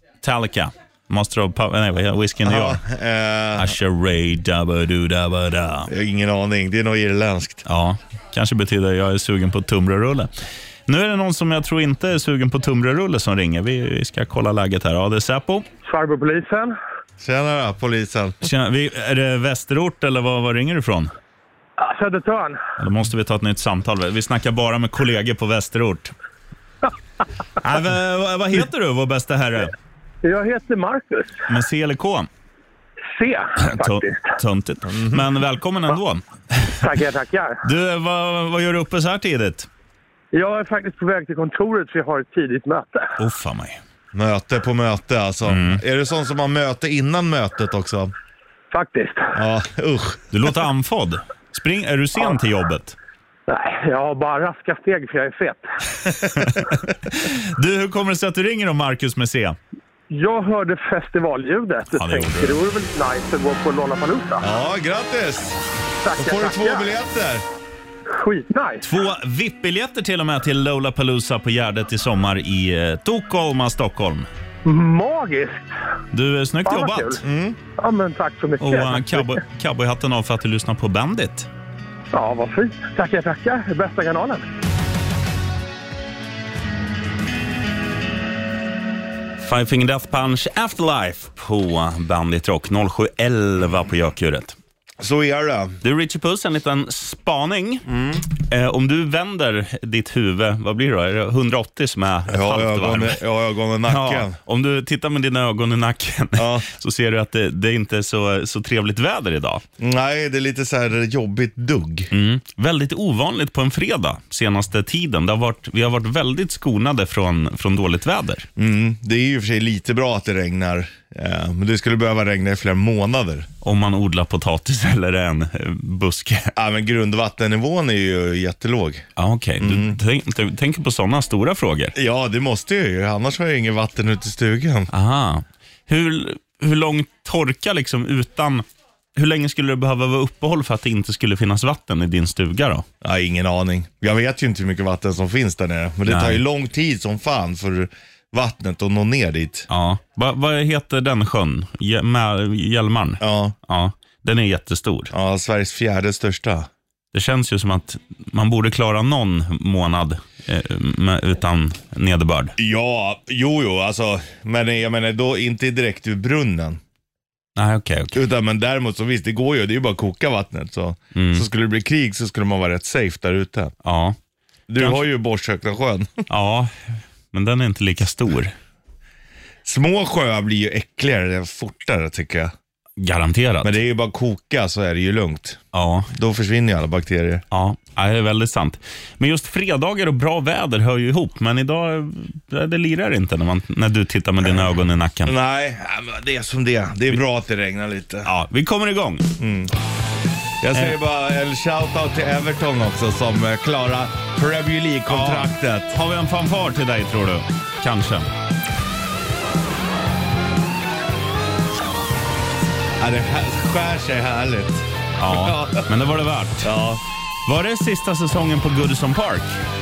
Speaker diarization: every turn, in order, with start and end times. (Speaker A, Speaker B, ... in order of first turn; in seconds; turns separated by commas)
Speaker A: 0.2-2.8, Speaker B: 2.4-3.7, Speaker A: 3.6-5.9, Speaker B: 5.9-7.6, Speaker A: 7.7-10.3, Speaker A: 10.9-15.7, Speaker C: 15.8-16.8, Speaker B: 17.2-18.4, Speaker A: 18.4-21.1, Speaker C: 21.8-22.6, Speaker A: 22.8-26.1, Speaker A: 27.6-29.7, Speaker C: 30.2-31.4, Speaker A: 31.5-32.3, Speaker C: 33.1-34.2, Speaker A: 33.6-36.8, Speaker B: 34.9-35.2, Speaker C: 36.8-37.6, Speaker A: 37.6-39.7, Speaker C: 40.3-43.1, Speaker A: 43.2-43.8, Speaker B: 44.1-48.1, Speaker A: 45.5-45.8, Speaker C: 48.7-49.3, Speaker B: 49.3-50.2, Speaker A: 50.3-53.0, Speaker C: 53.5-55.7, Speaker A: 56.3-59.6, Speaker C: 60.1-64.5, Speaker A: 61.9-62.6, Speaker B: 64.4-65.6, Speaker C: 66.0-66.9, Speaker B: 66.2-67.5, Speaker C: 68.1-68.9, Speaker A: 68.8-74.3, Speaker C: 74.7-75.7, Speaker A: 76.1-77.2, Speaker C: 76.7-77.2, Speaker B: 77.2-77.6, Speaker C: 77.8-79.4, Speaker A: 78.6-81.5, Speaker C: 82.1-84.5, Speaker A: 89.4-94.6, Speaker B: 95.0-95.8, Speaker A: 95.8-103.2, Speaker B: 97.9-98.2, Speaker B: 102.3-104.4, Speaker A: 103.9-109.6, Speaker B: 106.4-106.7, Speaker B: 109.8-112.1, Speaker A: 112.1-118.5, Speaker B: 118.6-123.5, Speaker A: 123.6-126.5, Speaker B: 126.6-129.1, Speaker A: 129.2-131.9, Speaker B: 129.6-130.0, Speaker B: 131.9-134.9, Speaker A: 134.9-138.7, Speaker A: 139.2-142.9, Speaker B: 143.0-149.7, Speaker A: 146.1-146.4, Speaker A: 149.7-155.1, Speaker B: 153.2-153.6, Speaker B: 155.1-156.7, Speaker A: 157.1-162.6, Speaker B: 162.6-166.8, Speaker A: 167.6-168.2, Speaker B: 168.1-173.7, Speaker A: 171.2-171.5, Speaker A: 173.8-174.2, Speaker B: 174.7-176.2, Speaker A: 174.8-175.0, Speaker A: 176.3-176.7, Speaker A: 177.3-178.6, Speaker B: 179.7-182.5, Speaker A: 183.0-183.8, Speaker B: 183.6-187.4, Speaker A: 185.7-186.1, Speaker A: 187.5-195.3, Speaker B: 194.4-194.7, Speaker B: 195.3-198.3, Speaker A: 198.2-199.3, Speaker B: 199.4-199.7, Speaker B: 200.6-205.9, Speaker A: 205.1-208.3, Speaker B: 213.0-215.9, Speaker A: 215.2-216.7, Speaker B: 216.6-217.0, Speaker A: 217.5-219.6